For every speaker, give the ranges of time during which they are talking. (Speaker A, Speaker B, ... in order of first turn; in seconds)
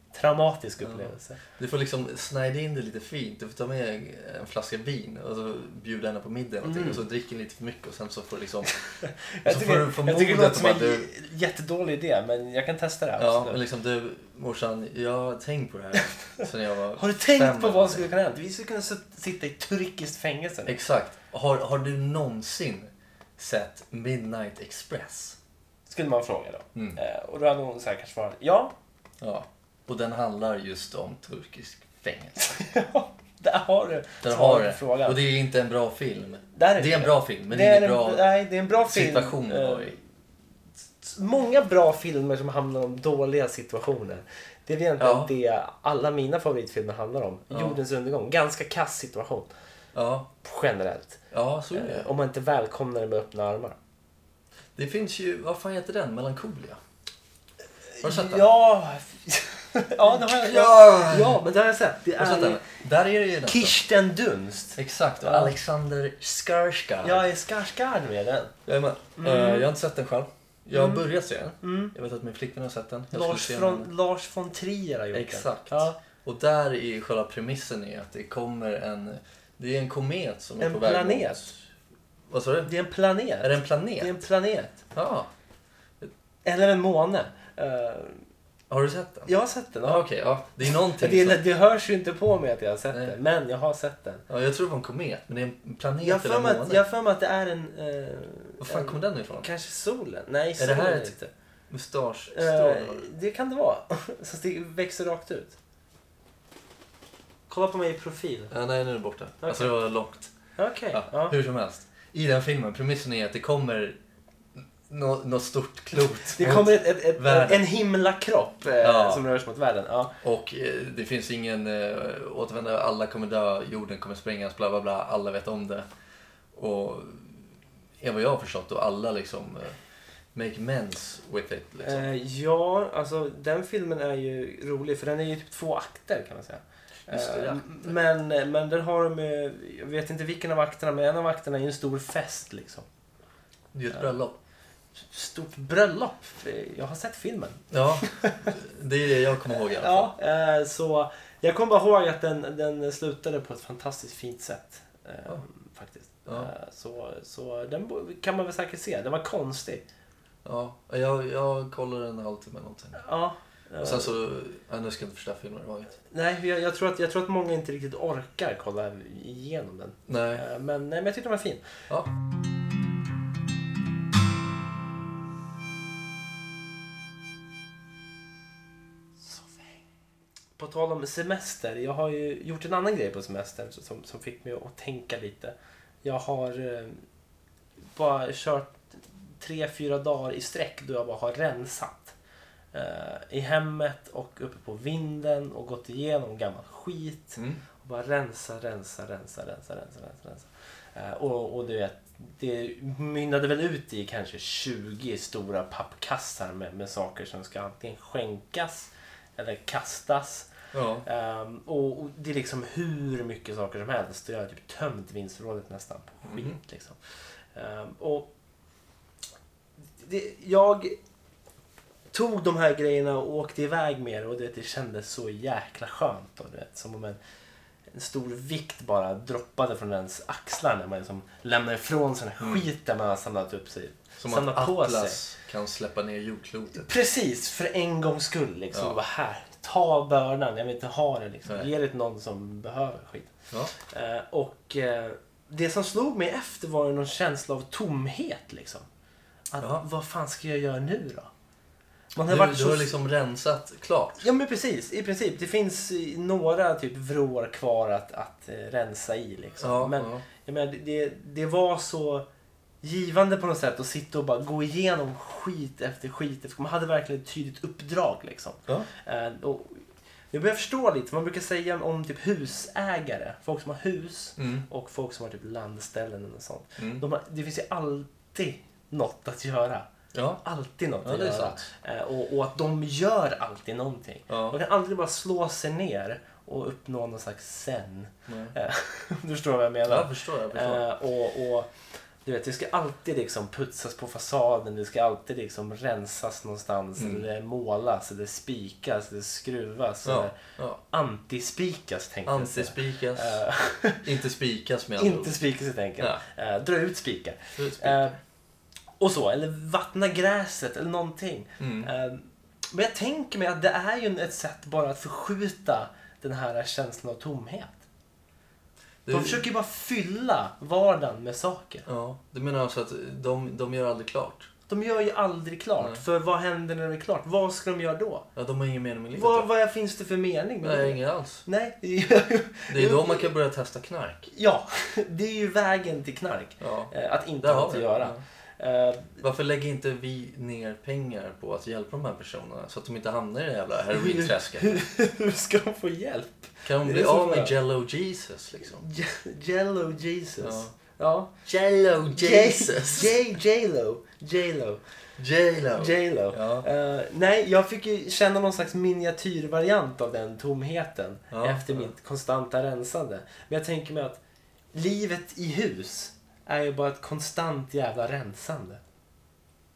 Speaker A: 0.1-1.4, 6.6-7.0, 8.9-13.6, 16.9-20.8, 25.9-28.7, 32.4-35.2, 36.5-40.0, 41.0-49.5, 50.4-53.8, 58.0-62.6, 63.5-65.5, 67.0-68.5, 69.2-69.7, 70.7-71.0, 71.6-71.9, 73.1-76.0, 80.6-81.5, 82.7-84.8, 86.5-88.2, 89.3-90.1, 90.7-94.2, 96.0-101.3, 102.3-105.6, 107.5-108.5, 109.4-109.7, 110.6-111.4, 116.3-120.1, 131.8-142.9, 145.0-148.6, 149.5-159.8, 162.9-164.2, 166.1-171.6, 180.6-187.0, 187.9-192.2, 192.7-210.5, 211.1-217.0, 217.6-218.3, 220.0-221.0, 222.1-227.2, 227.9-235.2, 236.7-248.9, 249.5-251.3, 252.2-253.0, 254.2-262.3, 262.8-279.9, 280.4-291.7, 292.2-300.4, 300.9-304.1, 305.0-308.2, 309.0-317.8, 319.1-321.9, 324.7-328.3, 329.1-333.3, 334.3-339.2, 343.9-347.6, 348.8-351.3, 352.1-354.8, 355.7-364.2, 364.7-368.8
Speaker B: 0.8-8.7, 9.4-11.1, 13.2-18.1, 20.7-25.4, 26.7-27.0, 29.2-32.5, 34.2-38.3, 38.9-40.0, 45.0-45.3, 47.5-47.8, 49.9-50.3, 51.3-52.1, 54.8-56.8, 58.0-58.5, 60.1-61.4, 62.2-63.8, 64.8-67.3, 68.7-73.9, 75.1-81.6, 82.3-82.7, 83.4-84.2, 84.9-85.3, 88.7-89.3, 89.8-91.4, 92.9-93.2, 94.3-96.8, 98.6-99.5, 100.6-101.2, 101.7-103.1, 108.5-110.3, 110.9-114.0, 114.6-117.7, 118.8-119.2, 120.2-125.8, 126.5-127.4, 128.0-129.8, 130.3-132.1, 137.1-137.9, 143.7-144.4, 147.7-150.1, 156.3-156.5, 160.4-163.0, 163.8-166.0, 170.1-170.4, 210.7-211.1, 216.2-216.6, 232.4-232.7, 234.2-236.9, 238.7-239.0, 252.3-254.2, 259.6-260.2, 274.4-274.7, 276.8-277.0, 280.1-280.4, 281.0-281.7, 284.3-284.6, 288.3-288.6, 289.9-290.9, 297.0-297.2, 300.0-300.8, 302.3-303.4, 304.0-305.4, 307.6-308.1, 311.6-311.9, 319.1-319.4, 321.9-324.5, 325.8-326.0, 328.4-329.5, 330.6-331.4, 332.7-334.3, 336.6-338.2, 339.2-344.8, 346.6-348.8, 350.4-350.7, 351.4-353.2, 355.2-356.7, 361.3-361.9